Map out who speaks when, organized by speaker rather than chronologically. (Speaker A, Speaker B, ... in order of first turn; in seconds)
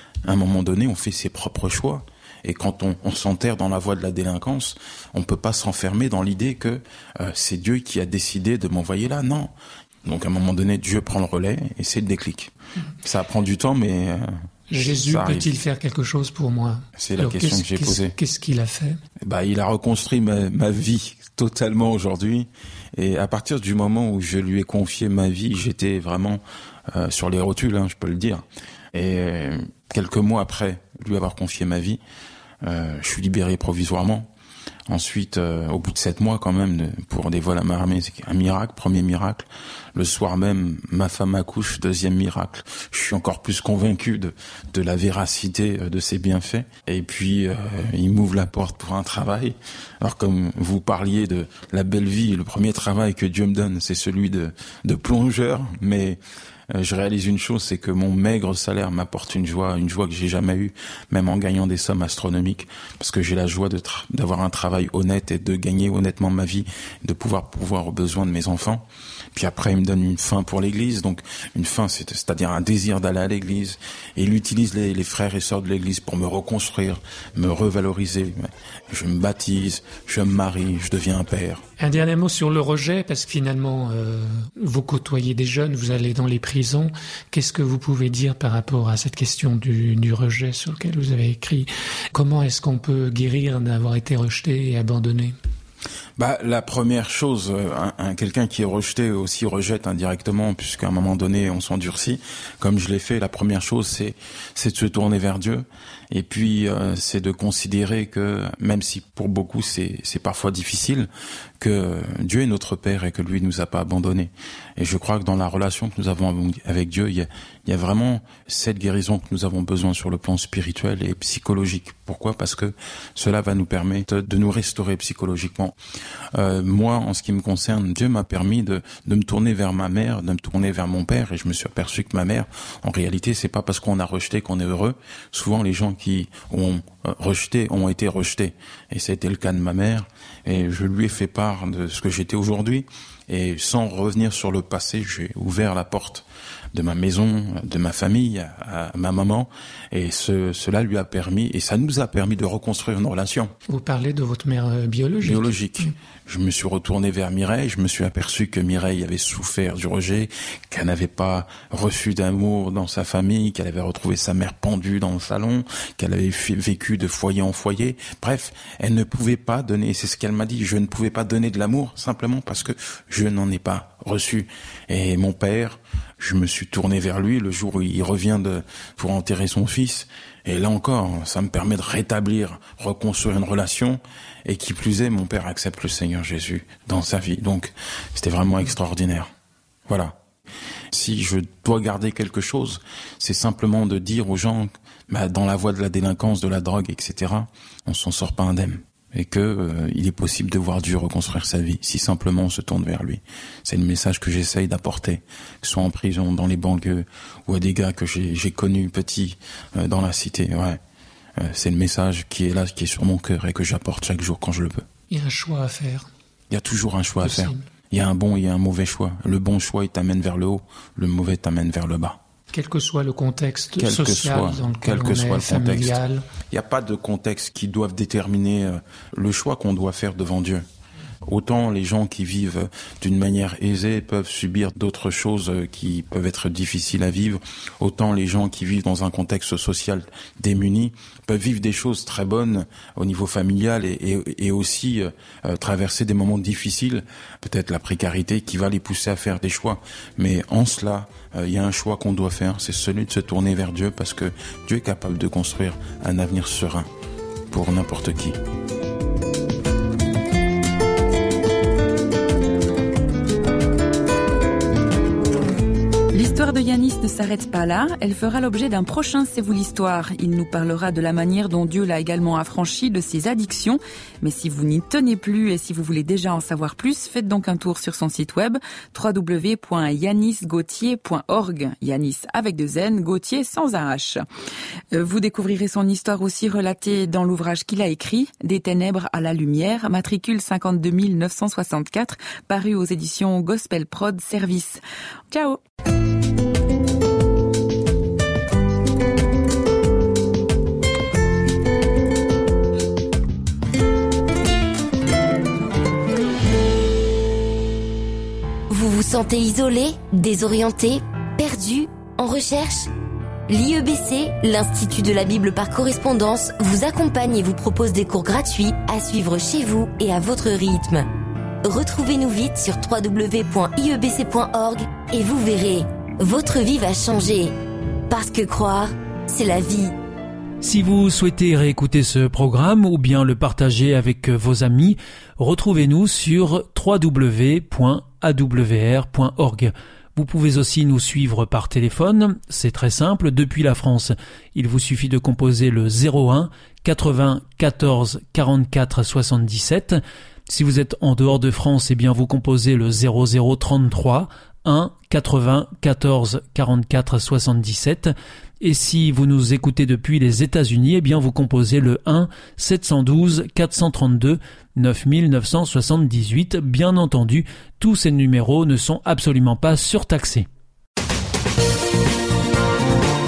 Speaker A: 0.2-15.5, 17.0-18.1, 19.2-32.0, 32.6-34.3, 34.9-56.2, 56.7-81.6, 96.2-111.1, 111.6-125.8, 126.3-153.5, 155.2-189.3, 189.9-190.2, 190.9-210.8, 211.4-214.8, 216.5-222.2, 223.8-230.6, 231.2-256.9, 257.5-258.4
Speaker B: 14.7-19.0, 81.8-95.3, 153.7-155.9, 215.1-216.1, 217.2-217.6, 222.5-226.2
Speaker C: 266.1-284.2, 284.9-295.6
Speaker D: 308.7-312.9, 313.5-321.1, 321.6-327.5, 328.1-329.9
Speaker E: 330.6-370.5